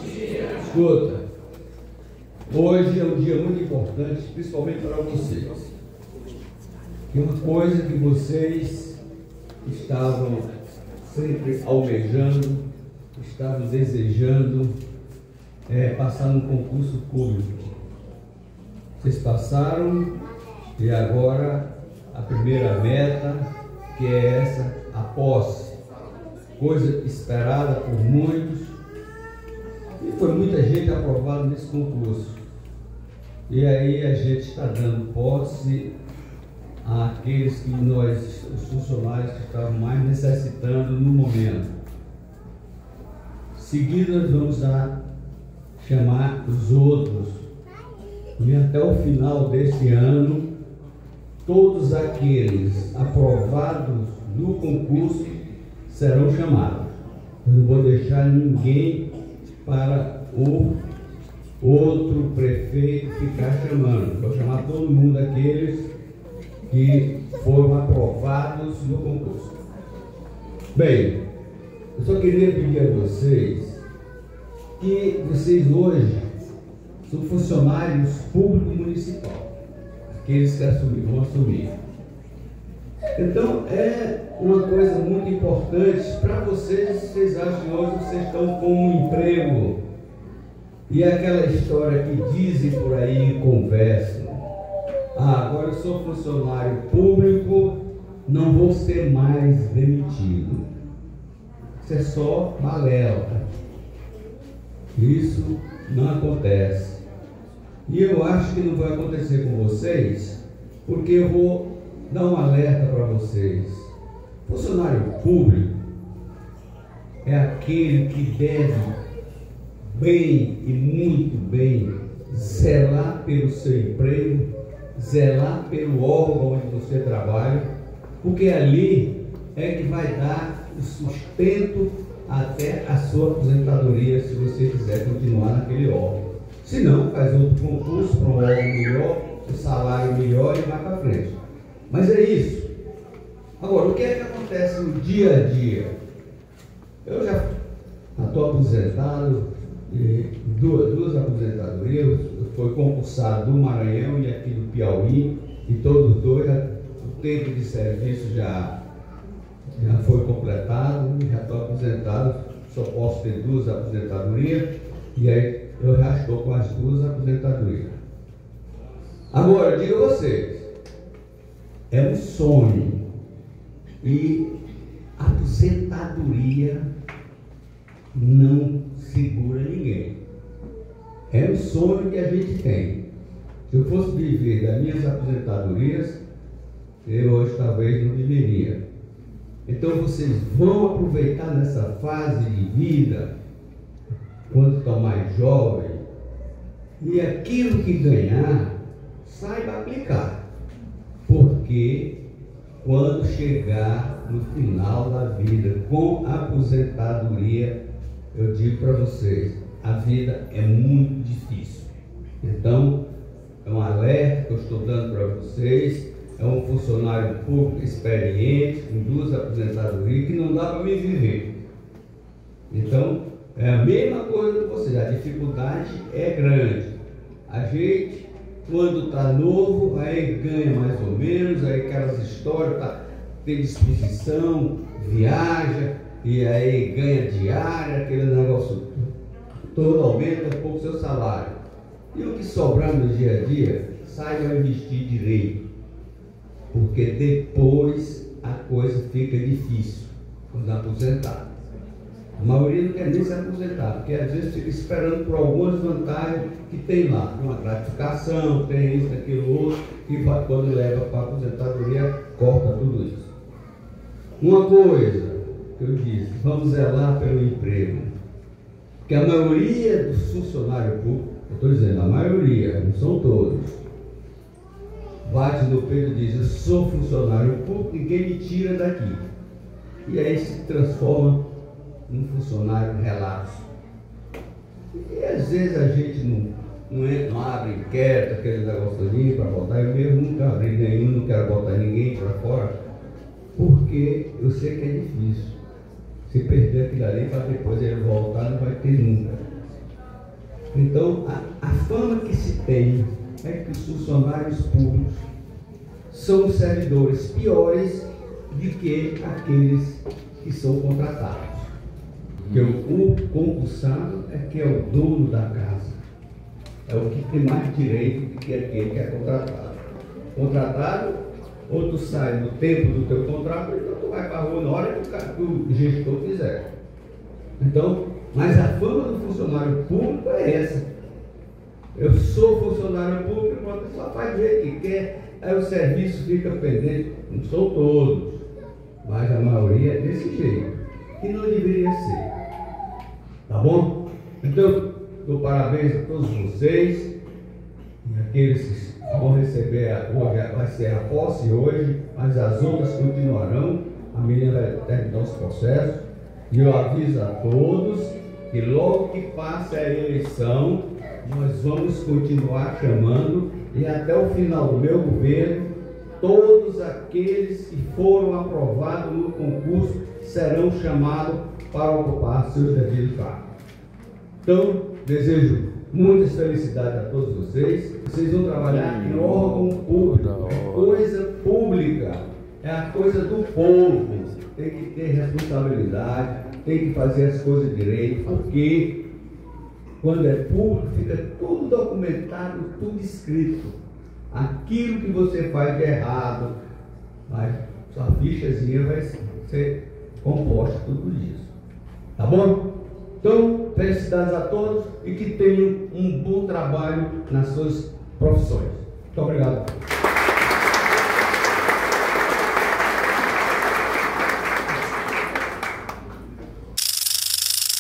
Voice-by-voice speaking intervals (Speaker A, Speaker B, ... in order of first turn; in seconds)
Speaker A: 0.4-1.2, 2.5-5.7, 7.1-9.0, 9.6-10.5, 11.0-14.7, 15.7-17.7, 19.0-20.2, 20.8-25.8, 26.6-28.8, 30.0-32.4, 33.5-35.9, 36.8-41.7, 43.5-45.0, 45.8-47.5, 48.4-50.5, 51.5-55.3, 55.9-59.1, 59.6-60.8, 61.6-65.9, 66.7-69.5, 70.7-71.2, 72.0-73.8, 74.8-76.3, 77.0-79.5, 80.1-81.7, 83.2-89.8, 90.9-94.4, 95.1-100.7, 101.8-103.5, 105.0-107.0, 107.9-113.9, 114.5-115.8, 117.2-119.0, 119.8-127.7, 128.2-141.4, 141.9-142.7, 143.6-145.9, 147.1-147.6, 148.2-158.7, 159.8-168.0, 169.3-170.7, 171.9-173.1, 174.0-174.5, 175.2-176.9, 178.1-180.2, 181.3-183.0, 183.7-186.2, 187.1-188.8, 189.7-193.3, 194.5-196.0, 197.0-200.4, 201.3-202.2, 202.8-207.8, 208.3-211.9, 212.4-213.0, 213.6-221.5, 222.7-226.9, 227.5-239.1, 239.7-241.6, 242.1-245.6, 246.7-251.5, 252.4-263.3, 264.4-268.1, 269.1-273.8, 275.2-279.2, 280.1-281.4, 282.1-283.7, 284.9-292.7, 293.6-295.6, 296.3-299.5, 300.7-305.3, 306.1-311.7, 312.5-316.0, 316.9-319.8, 320.4-326.6, 327.6-330.9, 331.9-338.4, 339.0-342.3, 343.5-347.1, 348.0-373.4, 374.4-389.0, 390.0-393.8, 394.3-396.5, 397.3-401.5, 402.2-409.8